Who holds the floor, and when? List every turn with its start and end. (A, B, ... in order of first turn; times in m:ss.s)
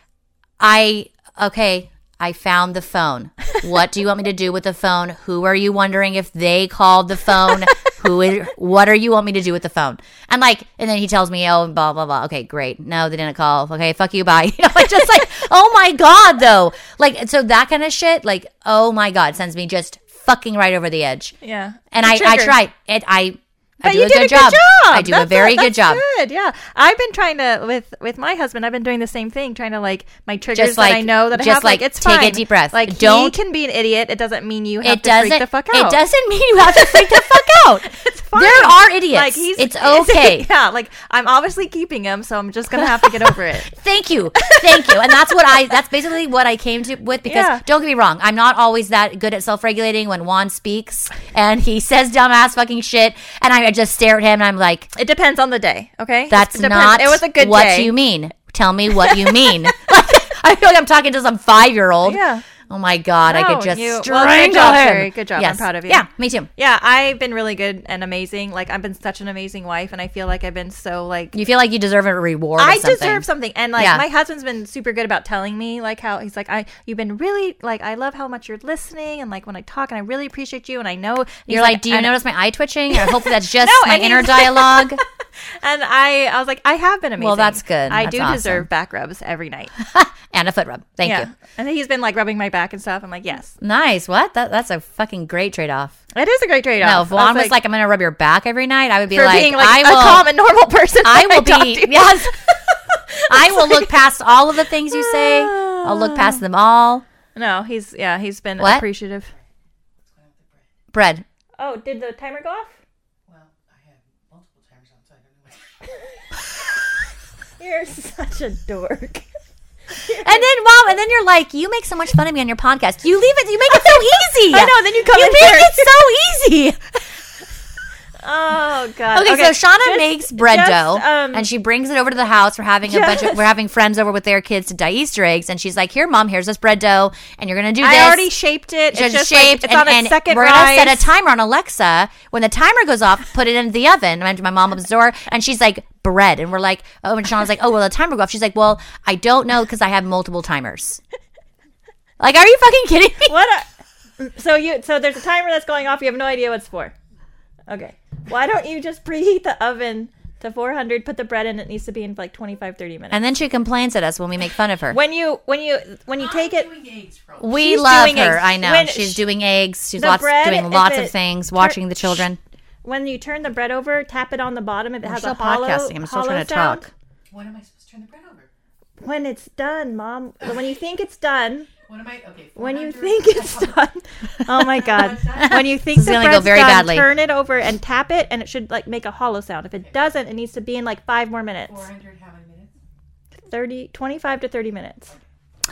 0:00.6-0:21.3 A
0:07.4-0:07.7 B
0:21.4-0:22.6 B
0:21.9-0:26.0 A
0:23.8-0:36.0 B
0:30.5-0:33.4 A
0:34.8-0:40.5 A
0:36.6-0:43.7 B
0:43.6-0:54.9 A
0:44.4-0:45.3 B
0:47.2-0:47.6 B
0:54.9-0:57.9 B
0:56.3-1:06.5 A
0:58.9-0:59.6 B
1:02.0-1:02.4 B
1:03.2-1:06.0 B
1:06.6-1:11.3 B
1:11.3-1:13.3 A
1:12.6-1:22.1 B
1:13.8-1:14.0 A
1:21.5-1:25.0 A
1:22.9-1:25.0 B
1:25.5-1:29.7 B
1:27.2-1:28.6 A
1:29.8-1:31.3 A
1:31.0-1:33.5 B
1:33.6-1:36.0 A
1:36.1-1:37.5 B
1:36.8-1:40.3 A
1:39.1-1:44.0 B
1:41.0-1:42.5 A
1:43.3-1:47.0 A
1:44.9-1:46.4 B
1:47.3-1:49.3 B
1:48.6-1:48.8 A
1:50.0-1:50.8 C
1:50.9-1:51.2 A
1:51.6-1:52.7 B
1:53.2-1:56.4 C
1:57.6-1:59.2 B
2:00.1-2:00.5 B
2:00.1-2:07.0 A
2:03.7-2:05.9 B
2:08.2-2:11.5 B
2:09.1-2:18.3 A
2:12.9-2:13.4 B
2:17.8-2:21.1 B
2:18.9-2:31.0 A
2:32.2-2:33.4 A
2:33.2-2:36.9 B
2:37.7-2:43.2 B
2:43.1-2:45.0 A
2:44.9-2:46.7 B
2:46.1-2:47.6 C
2:47.4-2:52.4 A
2:47.6-2:49.2 B
2:50.0-2:51.8 B
2:52.8-2:56.9 B
2:55.0-2:56.9 A
2:57.3-2:58.5 C
2:59.0-3:01.7 B
3:01.8-3:03.8 C
3:02.6-3:11.9 B
3:04.7-3:05.7 C
3:05.4-3:07.1 A
3:11.7-3:12.7 C
3:13.4-3:15.1 B